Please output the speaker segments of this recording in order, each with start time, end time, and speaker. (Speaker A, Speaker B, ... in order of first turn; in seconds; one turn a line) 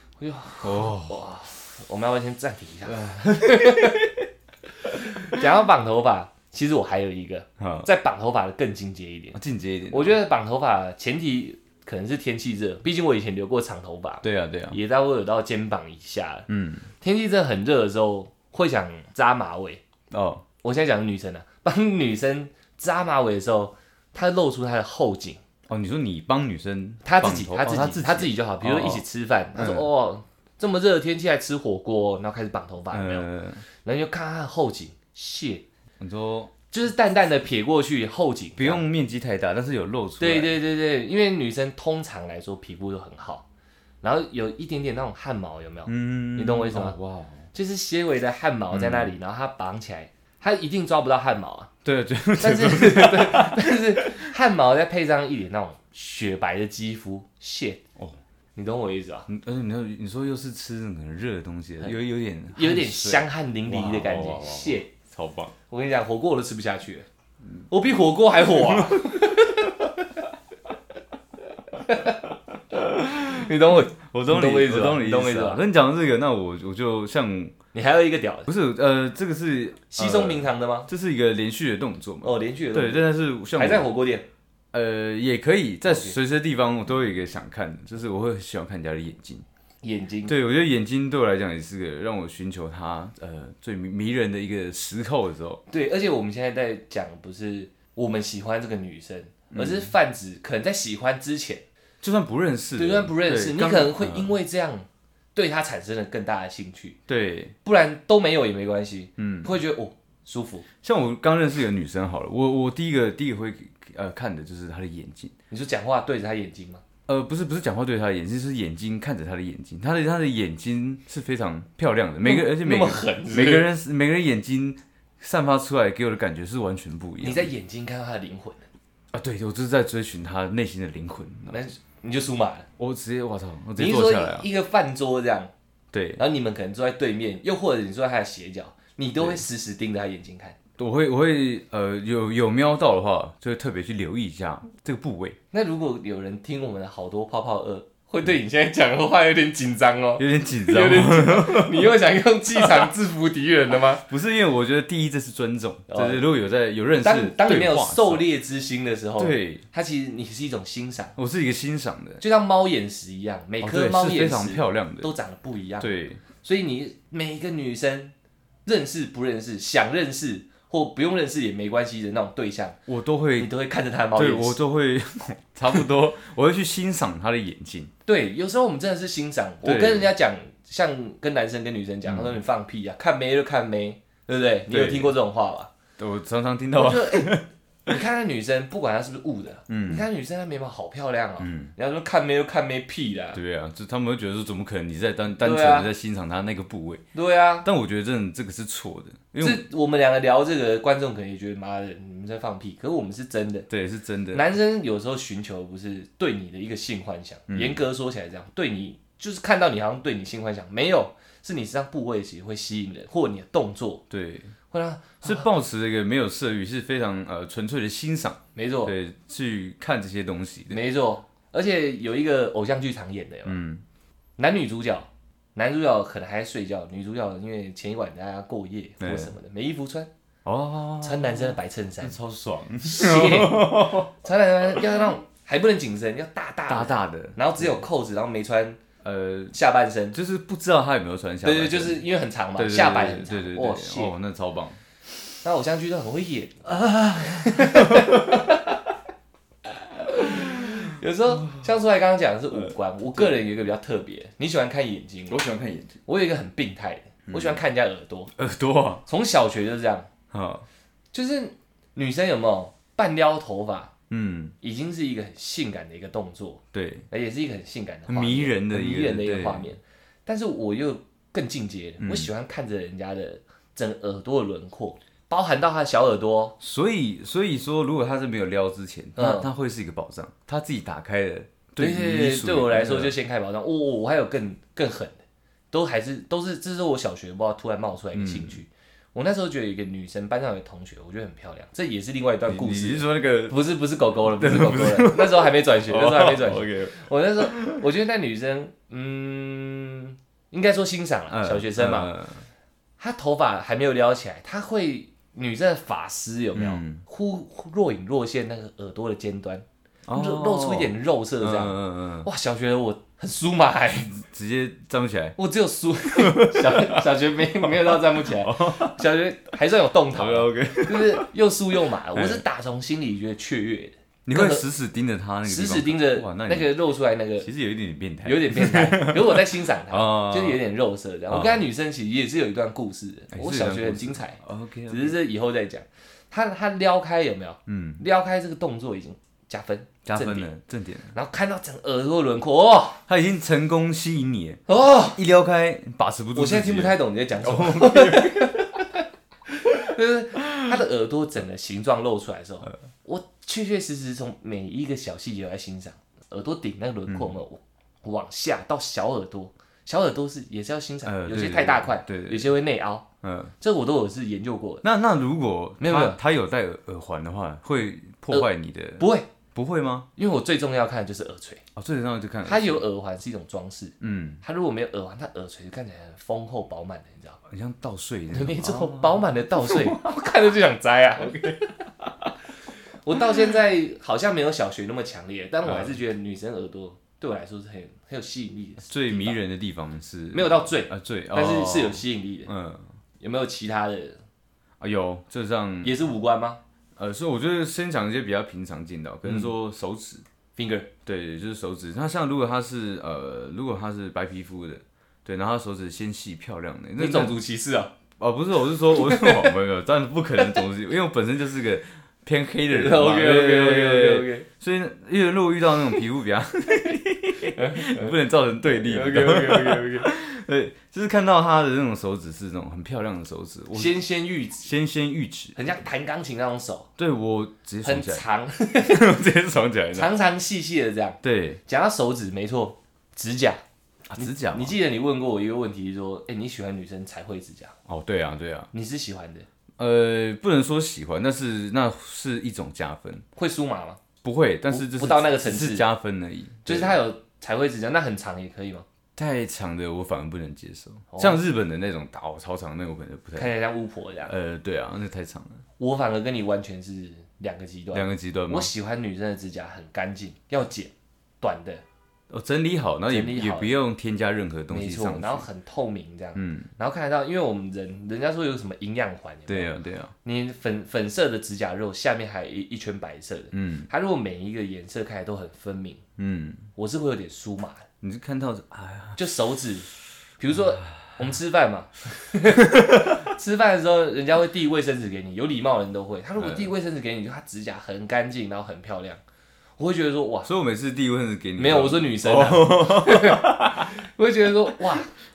Speaker A: 0.2-4.0
Speaker B: 0.6-1.2
Speaker B: 2.9-4.2
Speaker B: 5.1-5.4
Speaker A: 5.2-9.4
Speaker B: 7.6-7.9
Speaker B: 9.3-10.2
Speaker A: 9.9-16.5
Speaker B: 14.2-14.8
Speaker B: 16.5-16.9
Speaker A: 17.0-19.8
Speaker B: 20.1-20.4
Speaker A: 20.6-25.4
Speaker B: 25.7-29.0
Speaker A: 27.1-33.3
Speaker B: 29.6-29.9
Speaker B: 32.9-33.6
Speaker A: 33.8-35.6
Speaker B: 36.0-36.5
Speaker A: 36.7-38.8
Speaker B: 38.6-40.5
Speaker A: 40.2-43.4
Speaker A: 44.0-47.0
Speaker B: 45.9-47.5
Speaker A: 47.5-51.7
Speaker B: 48.7-49.1
Speaker B: 51.9-54.3
Speaker A: 52.4-57.8
Speaker A: 58.5-59.3
Speaker B: 59.3-65.5
Speaker A: 62.5-64.9
Speaker A: 65.7-67.1
Speaker A: 67.7-70.0
Speaker B: 68.6-69.1
Speaker A: 71.8-72.2
Speaker B: 72.7-77.6
Speaker A: 73.1-75.6
Speaker A: 77.7-78.5
Speaker B: 78.5-83.9
Speaker A: 79.9-80.9
Speaker A: 82.2-84.3
Speaker B: 84.7-89.5
Speaker A: 85.9-86.2
Speaker A: 89.8-90.3
Speaker B: 90.3-95.6
Speaker A: 95.7-101.7
Speaker B: 99.5-99.9
Speaker B: 102.0-104.3
Speaker A: 102.8-107.0
Speaker B: 107.1-107.5
Speaker A: 107.6-110.7
Speaker B: 109.2-109.5
Speaker B: 110.8-115.3
Speaker A: 115.5-116.8
Speaker B: 117.1-127.5
Speaker A: 122.2-123.7
Speaker A: 127.2-128.7
Speaker B: 129.1-131.6
Speaker A: 131.5-132.7
Speaker B: 132.8-134.5
Speaker A: 133.8-135.5
Speaker B: 135.9-136.2
Speaker A: 136.2-140.6
Speaker B: 140.8-145.4
Speaker A: 145.5-154.0
Speaker B: 150.2-152.0
Speaker B: 152.6-152.9
Speaker B: 154.0-158.3
Speaker A: 155.9-156.2
Speaker A: 157.0-161.2
Speaker B: 159.2-159.6
Speaker B: 161.2-162.2
Speaker A: 162.2-168.1
Speaker B: 163.6-165.1
Speaker B: 165.8-166.2
Speaker A: 168.7-172.8
Speaker B: 172.9-173.5
Speaker A: 173.4-174.6
Speaker B: 174.2-177.9
Speaker A: 178.1-185.7
Speaker B: 179.6-180.1
Speaker B: 182.1-182.4
Speaker B: 184.7-185.2
Speaker B: 186.0-187.9
Speaker A: 186.8-187.3
Speaker A: 187.9-193.4
Speaker B: 189.7-190.1
Speaker B: 191.4-191.7
Speaker B: 193.3-197.0
Speaker A: 195.4-195.9
Speaker A: 197.1-197.7
Speaker B: 197.6-199.6
Speaker A: 199.4-203.7
Speaker B: 203.7-204.4
Speaker A: 204.3-214.0
Speaker B: 207.5-207.8
Speaker B: 214.1-214.5
Speaker A: 214.7-215.5
Speaker B: 215.2-220.8
Speaker A: 218.6-218.9
Speaker A: 220.7-223.6
Speaker B: 223.4-223.8
Speaker A: 224.4-230.1
Speaker B: 229.0-229.3
Speaker B: 230.4-234.1
Speaker A: 231.0-232.2
Speaker A: 232.8-238.8
Speaker B: 234.8-235.1
Speaker B: 236.7-237.8
Speaker B: 239.0-239.6
Speaker A: 239.5-240.2
Speaker B: 240.1-242.0
Speaker A: 241.4-244.2
Speaker B: 242.6-244.8
Speaker A: 245.4-248.8
Speaker B: 246.8-248.6
Speaker A: 250.0-255.4
Speaker B: 250.2-251.7
Speaker B: 252.5-253.4
Speaker B: 255.3-256.0
Speaker A: 256.1-258.3
Speaker B: 257.3-257.6
Speaker B: 258.4-259.0
Speaker A: 259.1-260.1
Speaker B: 260.3-260.7
Speaker A: 261.1-263.9
Speaker B: 264.1-264.6
Speaker A: 264.6-276.6
Speaker B: 266.7-267.1
Speaker B: 268.1-269.7
Speaker B: 272.0-272.3
Speaker B: 276.6-283.1
Speaker A: 279.2-279.5
Speaker A: 281.8-285.2
Speaker A: 285.7-302.1
Speaker B: 288.1-288.6
Speaker B: 292.5-293.6
Speaker B: 294.3-297.8
Speaker B: 301.3-302.5
Speaker A: 303.0-314.2
Speaker B: 306.6-307.0
Speaker B: 310.1-312.3
Speaker B: 314.1-315.4
Speaker A: 315.4-324.7
Speaker B: 316.2-317.1
Speaker B: 317.6-319.0
Speaker B: 320.1-321.3
Speaker B: 322.1-322.4
Speaker B: 324.3-326.7
Speaker A: 325.5-327.5
Speaker B: 327.4-330.6
Speaker A: 328.2-340.5
Speaker B: 331.3-331.6
Speaker B: 333.3-335.2
Speaker B: 337.7-338.0
Speaker B: 340.1-341.1
Speaker A: 341.1-343.0
Speaker B: 343.1-348.7
Speaker A: 344.7-345.2
Speaker A: 346.3-348.8
Speaker A: 349.5-363.1
Speaker B: 357.1-357.4
Speaker B: 361.0-362.5
Speaker B: 363.2-363.5
Speaker A: 363.6-364.8
Speaker B: 364.8-370.1
Speaker A: 365.8-366.2
Speaker A: 369.0-369.3
Speaker A: 370.2-371.6
Speaker B: 371.8-372.8
Speaker A: 372.4-377.4
Speaker B: 374.0-374.4
Speaker B: 377.5-380.3
Speaker A: 378.3-381.6
Speaker B: 381.2-382.3
Speaker A: 383.1-389.4
Speaker B: 385.6-386.0
Speaker B: 388.9-392.9
Speaker A: 390.3-392.5
Speaker A: 393.2-394.2
Speaker B: 394.8-395.9
Speaker A: 395.8-396.6
Speaker B: 397.0-400.2
Speaker A: 399.3-399.5
Speaker A: 400.6-400.9
Speaker B: 401.1-407.4
Speaker A: 407.0-407.9
Speaker B: 408.2-424.0
Speaker A: 408.9-409.5
Speaker A: 412.7-414.5
Speaker A: 417.6-420.1
Speaker A: 423.7-424.7
Speaker B: 424.6-425.7
Speaker A: 425.6-426.9
Speaker B: 427.0-428.2
Speaker A: 427.8-429.0
Speaker B: 428.8-430.1
Speaker A: 429.9-433.6
Speaker B: 431.2-431.6
Speaker B: 434.1-434.8
Speaker A: 434.2-437.8
Speaker B: 437.9-438.7
Speaker A: 438.7-439.5
Speaker B: 439.8-443.2
Speaker A: 443.4-444.0
Speaker B: 444.2-447.0
Speaker A: 444.7-445.9
Speaker A: 446.6-448.9
Speaker B: 449.2-453.5
Speaker A: 451.1-451.4
Speaker A: 453.4-454.3
Speaker B: 454.3-455.6
Speaker A: 455.8-461.8
Speaker B: 457.9-458.7
Speaker B: 462.3-465.5
Speaker A: 463.1-463.7
Speaker A: 464.7-476.0
Speaker B: 466.4-466.7
Speaker B: 469.5-470.1
Speaker B: 473.5-473.9
Speaker B: 476.2-476.7
Speaker A: 476.8-477.9
Speaker B: 478.0-479.2
Speaker A: 479.2-479.9
Speaker A: 480.4-489.2
Speaker B: 482.6-483.2
Speaker B: 486.4-486.7
Speaker A: 489.8-490.5
Speaker B: 490.4-493.9
Speaker A: 491.6-495.1